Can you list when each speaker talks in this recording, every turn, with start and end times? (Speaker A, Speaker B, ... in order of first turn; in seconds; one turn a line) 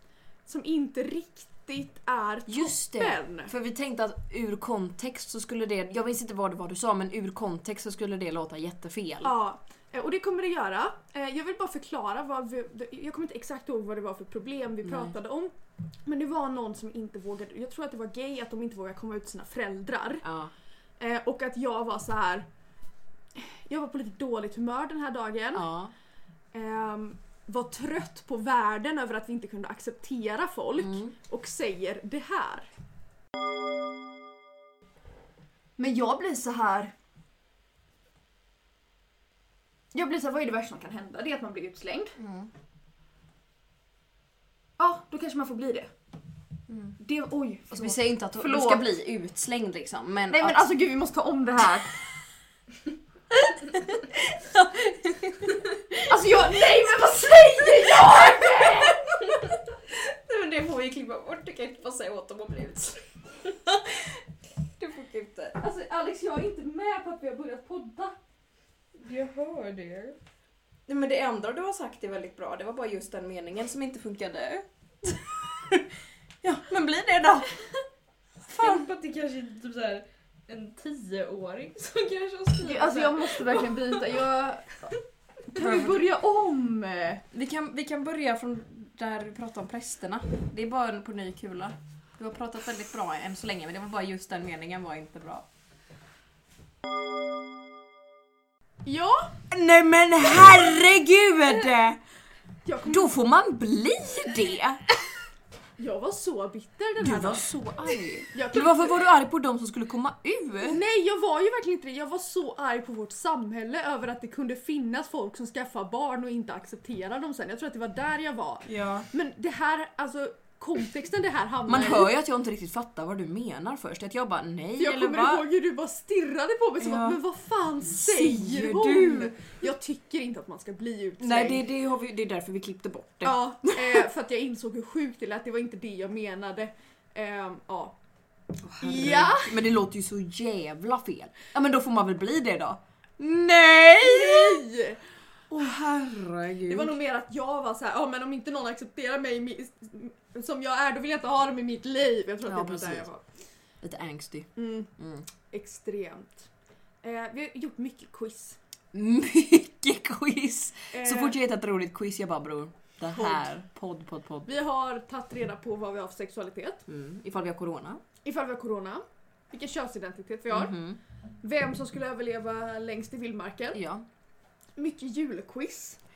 Speaker A: 0.5-3.5
Speaker B: 2.5-9.3
Speaker A: 9.2-15.5
Speaker B: 14.8-15.1
Speaker A: 16.0-20.2
Speaker B: 20.2-20.5
Speaker A: 21.0-22.5
Speaker A: 23.3-25.7
Speaker B: 25.5-25.9
Speaker A: 26.5-32.7
Speaker B: 30.8-31.1
Speaker A: 35.8-36.9
Speaker A: 39.9-42.2
Speaker B: 42.2-42.5
Speaker A: 44.8-45.9
Speaker A: 47.0-48.9
Speaker B: 47.7-50.7
Speaker A: 50.3-52.0
Speaker B: 53.7-55.6
Speaker A: 56.0-59.0
Speaker B: 57.6-63.8
Speaker B: 64.8-65.6
Speaker A: 65.6-68.2
Speaker C: 69.0-70.1
Speaker B: 70.9-75.8
Speaker B: 76.4-77.5
Speaker C: 78.5-84.1
Speaker B: 78.5-78.8
Speaker A: 82.6-84.9
Speaker A: 85.5-87.2
Speaker B: 85.5-86.1
Speaker B: 87.3-95.5
Speaker A: 98.8-99.4
Speaker B: 99.5-102.0
Speaker A: 102.6-103.1
Speaker B: 102.8-104.8
Speaker A: 105.8-107.5
Speaker B: 107.0-110.8
Speaker A: 108.3-108.9
Speaker A: 110.6-122.1
Speaker B: 118.7-119.1
Speaker B: 121.7-125.4
Speaker A: 124.8-131.6
Speaker B: 126.8-127.2
Speaker B: 127.9-129.3
Speaker B: 131.2-134.1
Speaker A: 133.2-138.0
Speaker B: 138.6-144.6
Speaker A: 138.8-139.6
Speaker A: 144.0-145.0
Speaker B: 145.5-146.9
Speaker A: 146.7-153.2
Speaker B: 152.4-153.1
Speaker B: 153.8-155.3
Speaker A: 154.6-154.9
Speaker A: 155.5-156.5
Speaker A: 157.0-158.6
Speaker B: 158.9-164.5
Speaker A: 160.9-161.4
Speaker A: 163.1-163.5
Speaker A: 164.5-166.8
Speaker B: 166.9-168.0
Speaker A: 168.2-170.8
Speaker B: 170.5-171.0
Speaker A: 171.4-173.8
Speaker B: 173.7-174.1
Speaker A: 174.8-176.0